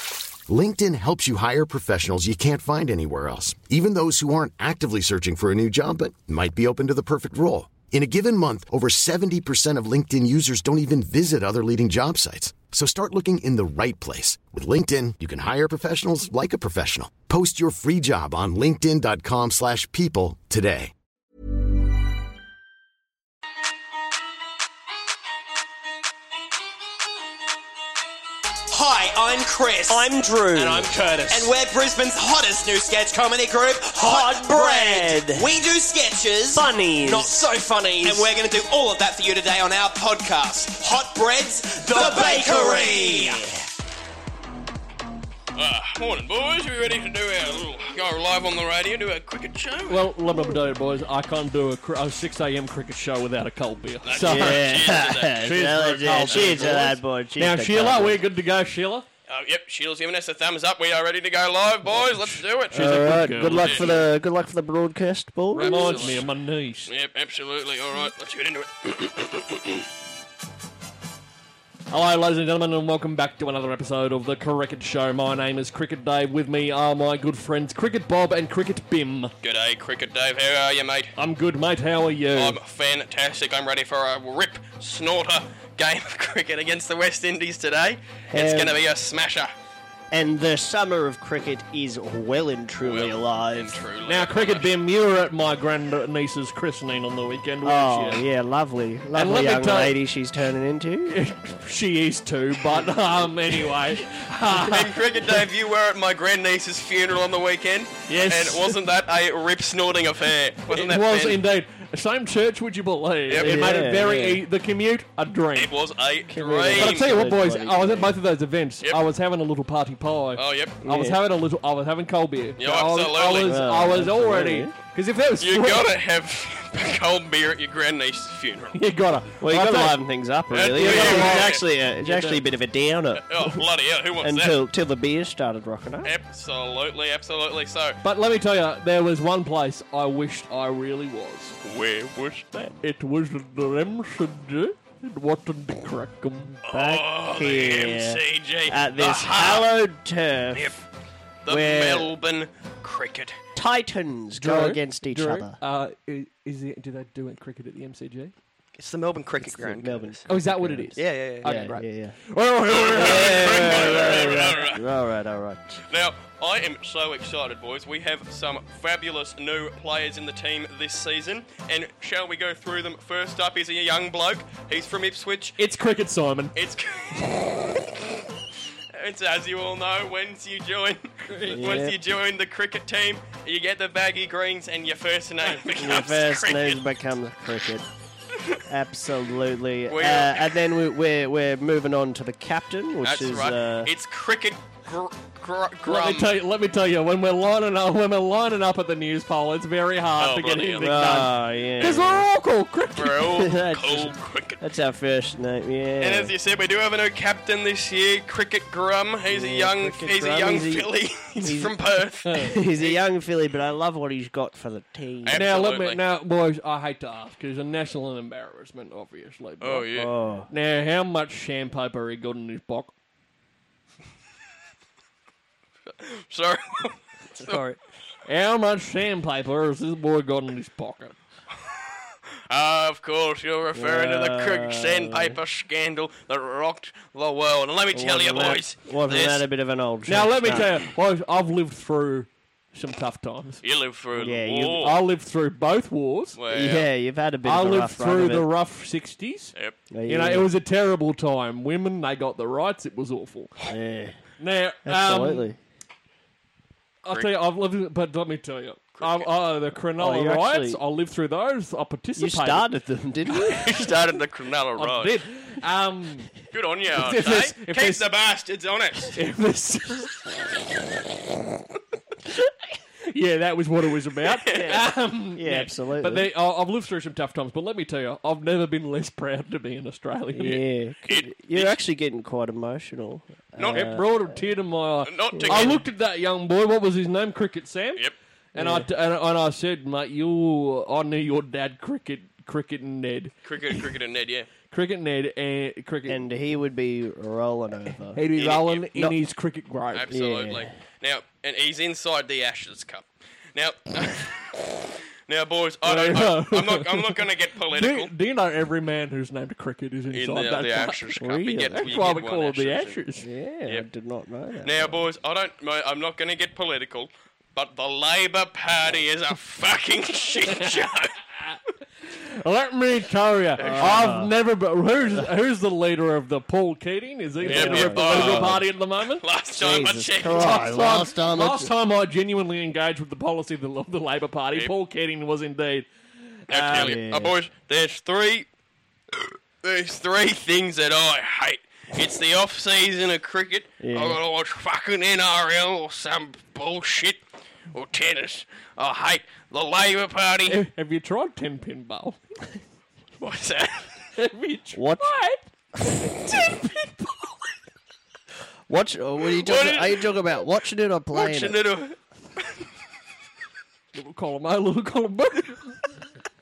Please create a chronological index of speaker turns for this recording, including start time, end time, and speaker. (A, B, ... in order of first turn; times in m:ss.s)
0:00.5-0:20.9 A
0:28.7-0:43.4 B
0:29.9-0:30.9 C
0:34.0-0:35.5 C
0:36.5-0:37.4 C
0:42.0-0:43.4 C
0:45.5-0:50.1 D
0:49.9-0:54.8 E
0:54.0-0:56.9 D
0:54.2-0:58.2 C
0:55.3-0:59.1 E
0:59.3-1:02.8 D
1:01.9-1:04.0 E
1:02.7-1:06.2 C
1:03.5-1:04.0 D
1:05.5-1:06.9 E
1:05.6-1:06.2 D
1:06.8-1:09.8 D
1:11.9-1:19.3 E
1:19.4-1:21.1 D
1:21.2-1:22.6 E
1:22.3-1:29.5 D
1:28.3-1:28.8 C
1:30.1-1:33.8 C
1:32.8-1:34.7 D
1:34.0-1:38.2 E
1:37.6-1:41.2 C
1:39.1-1:40.0 E
1:41.1-1:44.9 E
1:44.5-1:51.4 D
1:48.1-1:48.8 E
1:50.7-1:55.7 E
1:53.3-1:53.7 D
1:53.4-1:54.4 C
1:55.5-1:57.1 D
1:56.3-1:58.2 C
1:56.7-2:05.9 E
2:00.3-2:00.8 D
2:00.8-2:01.2 C
2:02.6-2:03.6 D
2:03.4-2:04.7 C
2:05.4-2:08.8 D
2:08.7-2:10.0 E
2:09.4-2:13.6 C
2:10.5-2:11.6 D
2:10.7-2:12.4 E
2:13.2-2:14.6 D
2:14.2-2:16.1 C
2:16.0-2:18.0 D
2:18.0-2:21.6 E
2:21.6-2:22.7 D
2:22.8-2:26.6 E
2:26.6-2:29.7 D
2:26.7-2:30.7 C
2:30.5-2:30.8 D
2:31.4-2:33.4 D
2:31.5-2:32.1 C
2:33.5-2:35.6 C
2:34.4-2:38.3 E
2:38.8-2:40.3 D
2:39.4-2:42.2 C
2:40.3-2:44.5 E
2:41.0-2:41.5 D
2:42.7-2:44.8 D
2:42.9-2:45.8 C
2:45.9-2:55.6 D
2:55.6-2:56.5 E
2:56.5-2:57.8 D
2:58.9-3:06.8 D
3:01.3-3:01.8 E
3:01.5-3:02.0 C
3:05.8-3:07.8 C
3:08.6-3:13.9 C
3:09.9-3:10.6 D
3:13.0-3:16.3 D
3:15.8-3:23.4 E
3:20.2-3:21.3 D
3:20.8-3:22.2 C
3:22.9-3:24.7 D
3:23.3-3:26.3 C
3:26.0-3:33.0 D
3:29.3-3:31.7 C
3:32.2-3:32.6 E
3:32.4-3:35.4 C
3:35.2-3:36.0 D
3:35.3-3:39.9 E
3:39.6-3:40.1 D
3:39.9-3:40.5 C
3:40.5-3:42.9 E
3:46.0-3:47.6 D
3:47.4-3:47.8 C
3:48.2-3:51.2 E
3:52.5-3:59.4 D
3:53.7-3:55.4 C
3:57.9-4:00.8 C
4:00.0-4:03.6 E
4:03.6-4:05.0 D
4:04.1-4:04.8 C
4:04.8-4:06.4 E
4:06.3-4:06.9 D
4:06.5-4:08.5 C
4:07.4-4:09.5 E
4:09.9-4:10.5 C
4:10.0-4:13.5 E
4:13.7-4:14.2 C
4:14.4-4:15.5 E
4:14.8-4:15.6 C
4:17.0-4:22.7 E
4:17.1-4:17.3 D
4:19.0-4:19.3 D
4:20.0-4:20.8 C
4:22.2-4:23.5 C
4:23.2-4:23.9 E
4:23.5-4:25.2 D
4:24.7-4:26.3 E
4:26.5-4:29.2 D
4:26.9-4:28.0 E
4:29.1-4:30.2 E
4:33.1-4:40.6 E
4:34.3-4:34.8 D
4:34.5-4:36.3 C
4:40.3-4:44.4 C
4:41.0-4:41.8 D
4:43.6-4:44.0 D
4:43.7-4:48.0 E
4:45.0-4:45.8 D
4:45.3-4:45.8 C
4:48.5-4:53.6 E
4:48.5-4:48.9 C
4:53.4-4:54.5 D
4:54.7-4:56.2 E
4:56.1-4:58.2 C
4:58.0-5:00.1 E
4:58.3-4:58.9 D
4:59.9-5:08.1 D
5:00.1-5:00.7 C
5:05.8-5:13.3 E
5:10.1-5:13.0 D
5:11.2-5:11.7 C
5:13.2-5:15.0 C
5:14.6-5:21.1 D
5:20.5-5:20.8 E
5:21.3-5:29.2 E
5:23.6-5:24.0 D
5:23.6-5:24.3 C
5:27.4-5:28.6 C
5:27.4-5:30.9 D
5:29.5-5:31.7 C
5:30.2-5:35.9 E
5:36.4-5:37.0 E
5:36.5-5:38.5 D
5:36.5-5:37.4 C
5:39.6-5:50.6 D
5:43.8-5:44.2 C
5:50.4-5:52.2 E
5:53.2-5:54.0 D
5:54.2-5:57.3 E
5:54.7-5:55.1 C
5:58.7-6:01.6 C
5:59.3-6:00.4 D
6:01.1-6:02.6 D
6:03.9-6:05.8 E